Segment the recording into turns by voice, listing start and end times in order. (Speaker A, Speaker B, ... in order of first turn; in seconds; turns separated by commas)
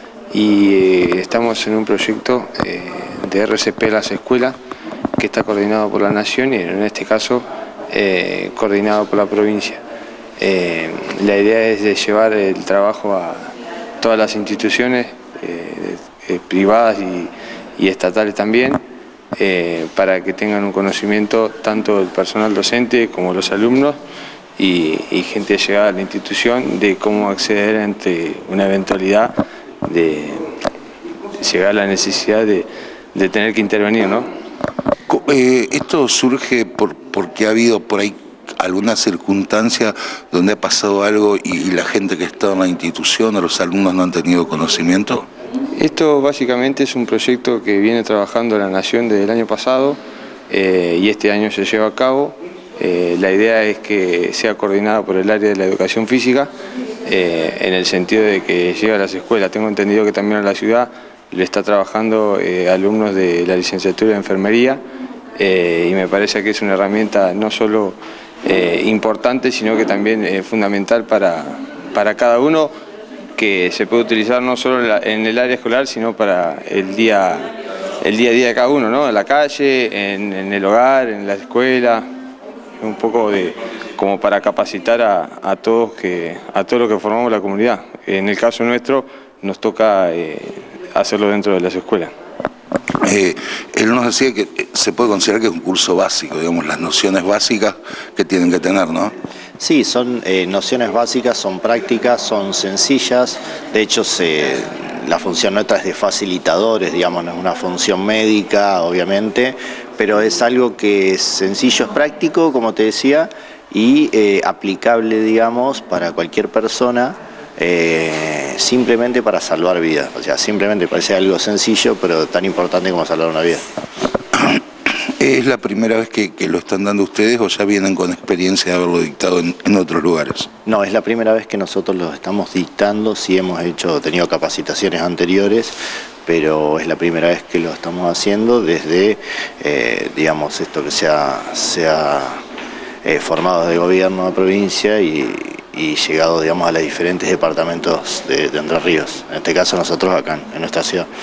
Speaker A: 0.3-4.6, Speaker A: 5.2-9.8, Speaker A: 10.4-18.8, Speaker A: 19.4-24.0, Speaker A: 24.6-29.3, Speaker A: 29.8-30.5, Speaker A: 31.4-34.3, Speaker B: 35.1-45.3, Speaker A: 45.7-50.0, Speaker A: 50.5-56.5, Speaker A: 57.0-64.8, Speaker A: 65.4-72.7, Speaker A: 73.4-82.1, Speaker A: 82.8-92.1, Speaker B: 93.0-99.1, Speaker C: 99.6-123.6, Speaker B: 124.3-124.6, Speaker B: 125.2-130.5, Speaker C: 130.7-142.4, Speaker C: 143.0-151.1